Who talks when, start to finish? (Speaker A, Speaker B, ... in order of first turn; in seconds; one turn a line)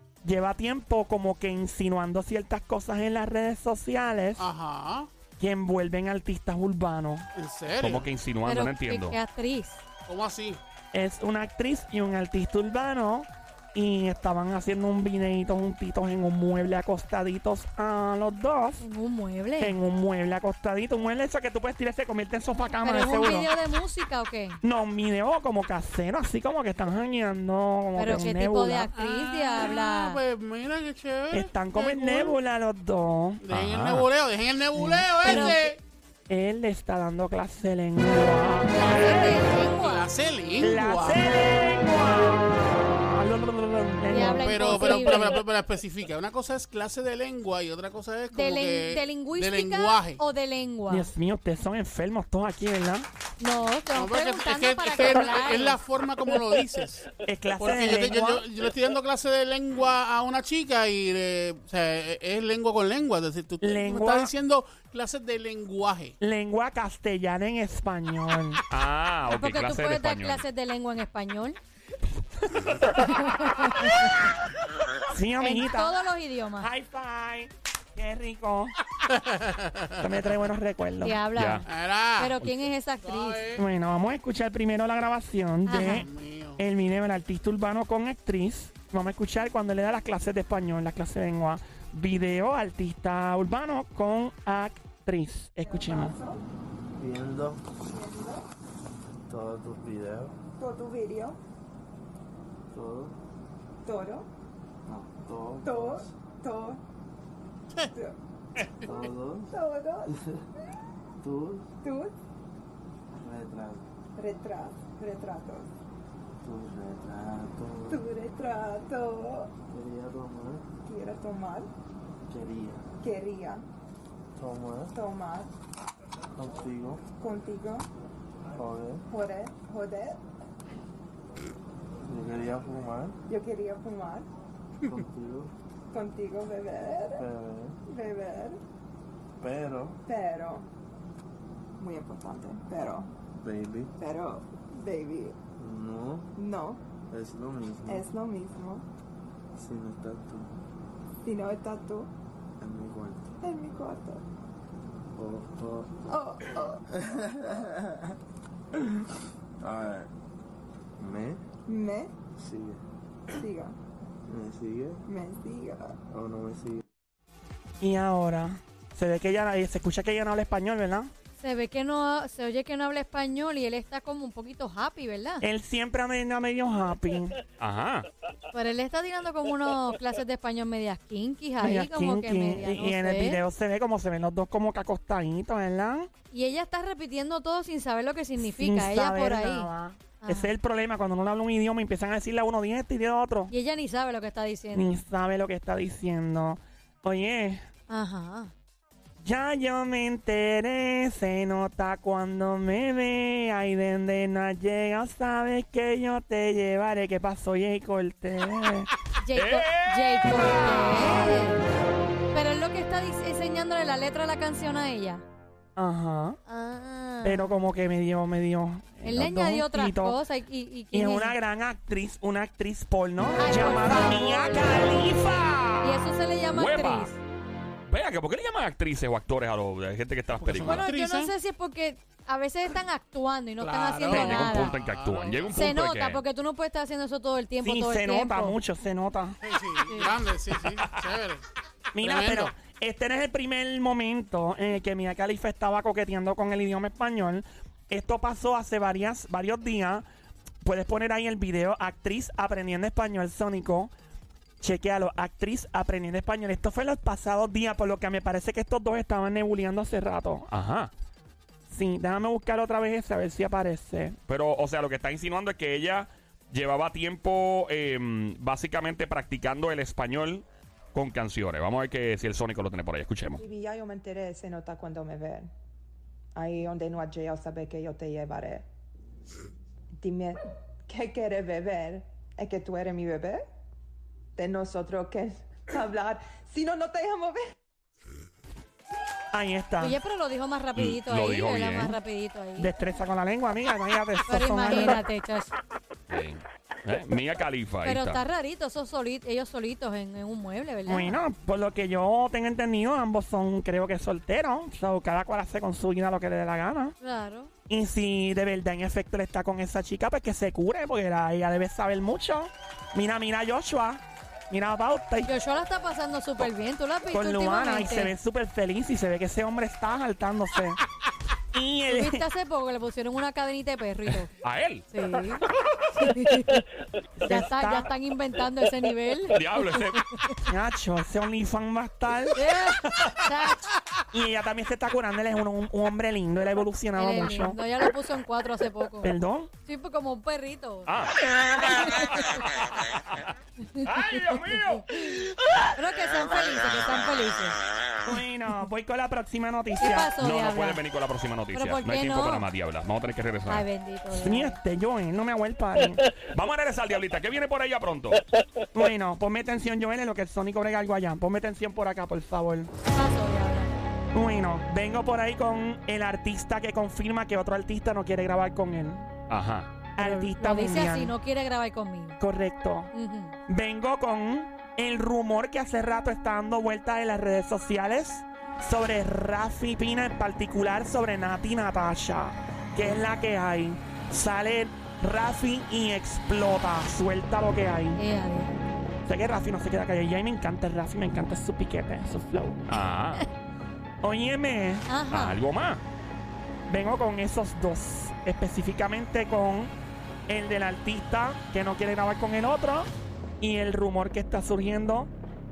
Speaker A: 0.2-4.5
Speaker B: 4.4-5.1
Speaker A: 5.4-7.3
Speaker B: 7.3-8.1
Speaker C: 7.8-9.2
Speaker D: 8.4-9.8
Speaker B: 10.1-10.6
Speaker A: 10.9-18.8
Speaker D: 18.8-19.8
Speaker A: 19.6-23.5
Speaker D: 22.8-24.6
Speaker A: 24.6-28.9
Speaker D: 27.9-30.2
Speaker B: 28.9-32.3
Speaker A: 31.3-33.4
Speaker B: 33.4-35.8
Speaker C: 33.5-34.1
Speaker A: 34.7-35.6
Speaker D: 35.2-35.6
Speaker A: 36.3-39.4
Speaker D: 38.7-40.0
Speaker B: 38.9-41.2
Speaker A: 40.6-45.3
Speaker D: 44.1-45.4
Speaker B: 44.4-50.2
Speaker D: 48.3-51.1
Speaker A: 50.9-53.1
Speaker D: 53.4-55.8
Speaker B: 53.9-66.2
Speaker A: 57.2-58.5
Speaker A: 63.6-64.3
Speaker A: 66.2-68.6
Speaker C: 68.7-70.4
Speaker D: 69.3-71.6
Speaker A: 72.4-72.7
Speaker D: 72.9-74.1
Speaker A: 75.1-76.0
Speaker D: 75.4-76.7
Speaker A: 76.6-78.7
Speaker B: 79.1-80.1
Speaker A: 80.0-81.2
Speaker D: 81.0-83.4
Speaker C: 81.3-81.6
Speaker B: 81.7-82.4
Speaker B: 83.0-83.6
Speaker A: 83.5-96.2
Speaker D: 85.7-86.1
Speaker B: 85.8-86.6
Speaker E: 95.6-96.4
Speaker F: 97.0-97.7
Speaker E: 97.8-98.5
Speaker F: 99.2-100.4
Speaker E: 100.6-101.4
Speaker F: 102.7-103.2
Speaker E: 103.8-104.3
Speaker F: 104.8-106.1
Speaker E: 105.6-106.8
Speaker B: 108.6-108.9
Speaker F: 108.8-109.5
Speaker E: 108.9-110.2
Speaker F: 111.2-111.7
Speaker E: 111.8-112.1
Speaker F: 113.1-113.9
Speaker E: 114.2-115.7
Speaker F: 116.4-118.0
Speaker E: 117.9-119.5
Speaker F: 119.7-120.7
Speaker E: 120.8-121.7
Speaker F: 122.3-122.9
Speaker E: 123.0-123.7
Speaker F: 124.3-124.9
Speaker E: 124.9-125.5
Speaker F: 126.3-127.0
Speaker E: 127.2-127.9
Speaker F: 128.5-129.1
Speaker E: 129.1-130.2
Speaker F: 132.0-133.2
Speaker E: 133.3-134.3
Speaker F: 134.8-135.5
Speaker E: 135.9-137.3
Speaker F: 137.2-137.8
Speaker E: 137.8-138.6
Speaker F: 139.4-140.0
Speaker E: 140.1-140.7
Speaker E: 141.8-143.1
Speaker F: 143.4-143.9
Speaker E: 144.0-145.4
Speaker F: 145.6-146.3
Speaker E: 146.3-146.9
Speaker F: 147.0-148.1
Speaker E: 147.8-148.8
Speaker F: 149.5-150.6
Speaker E: 151.2-152.1
Speaker F: 152.6-153.4
Speaker E: 153.4-154.2
Speaker F: 155.1-156.1
Speaker E: 156.1-156.8
Speaker F: 156.9-157.7
Speaker F: 159.6-160.1
Speaker F: 161.0-161.4
Speaker E: 161.7-162.2
Speaker F: 162.3-162.8
Speaker E: 163.3-163.8
Speaker F: 164.2-165.0
Speaker E: 165.0-166.0
Speaker F: 166.1-166.8
Speaker A: 167.8-171.1
Speaker D: 171.4-175.4
Speaker A: 175.4-177.4
Speaker C: 177.6-178.1
Speaker D: 178.5-183.4
Speaker A: 181.6-186.1
Speaker D: 186.3-189.7
Speaker A: 188.4-193.5
Speaker D: 190.2-190.5
Speaker D: 193.5-195.0
Speaker A: 194.7-197.7
Speaker D: 197.9-198.5
Speaker A: 199.2-208.9
Speaker D: 209.2-211.6
Speaker C: 209.3-211.3
Speaker D: 212.3-215.2
Speaker A: 215.8-216.4
Speaker D: 216.5-217.5
Speaker A: 217.2-220.2
Speaker D: 219.0-221.3
Speaker A: 220.9-226.0
Speaker D: 223.4-224.8
Speaker D: 225.8-227.2
Speaker C: 226.5-227.1
Speaker C: 227.9-230.8
Speaker B: 230.4-231.3
Speaker D: 230.7-234.7
Speaker B: 233.6-235.7
Speaker C: 234.1-236.2
Speaker D: 235.5-238.6
Speaker A: 237.6-239.4
Speaker B: 239.4-241.4
Speaker A: 241.9-250.1
Speaker B: 242.0-242.5
Speaker A: 250.6-253.9
Speaker A: 254.6-260.5
Speaker C: 260.5-260.9
Speaker A: 261.7-264.2
Speaker C: 264.3-273.4
Speaker E: 273.4-275.5
Speaker E: 276.3-278.7
Speaker E: 280.0-283.5
Speaker E: 284.4-287.6
Speaker A: 289.3-290.0
Speaker D: 289.8-292.7
Speaker C: 290.8-292.0
Speaker A: 292.6-295.0
Speaker D: 294.3-295.6
Speaker C: 296.1-298.2
Speaker D: 297.8-301.2
Speaker A: 300.9-306.9
Speaker D: 307.0-307.5
Speaker A: 307.7-315.3
Speaker D: 315.2-318.1
Speaker A: 317.1-320.8
Speaker A: 321.5-322.2
Speaker D: 321.9-324.3
Speaker C: 324.1-324.9
Speaker D: 324.9-325.4
Speaker D: 326.0-326.6
Speaker A: 327.2-327.9
Speaker D: 327.2-330.4
Speaker C: 329.3-330.0
Speaker A: 330.5-332.4
Speaker D: 332.3-333.7
Speaker A: 334.1-337.6
Speaker D: 336.9-339.1
Speaker A: 339.0-339.5
Speaker D: 339.6-340.9
Speaker C: 340.9-345.2
Speaker D: 341.6-342.4
Speaker D: 343.7-347.6
Speaker A: 348.0-350.1
Speaker D: 349.8-350.8
Speaker C: 350.2-353.6
Speaker D: 351.5-352.5
Speaker D: 353.5-354.6
Speaker A: 354.1-356.0
Speaker C: 356.1-358.2
Speaker A: 358.7-362.7
Speaker D: 362.9-363.8
Speaker A: 364.1-369.1
Speaker C: 369.3-369.7
Speaker A: 370.0-371.1
Speaker D: 370.0-372.2
Speaker A: 372.2-372.9
Speaker D: 372.9-373.4
Speaker A: 373.5-388.0
Speaker D: 387.9-388.6
Speaker A: 389.0-392.9
Speaker C: 392.7-393.2
Speaker A: 394.0-394.9
Speaker D: 394.9-395.4
Speaker C: 395.1-395.8
Speaker A: 396.7-399.7
Speaker A: 400.3-405.1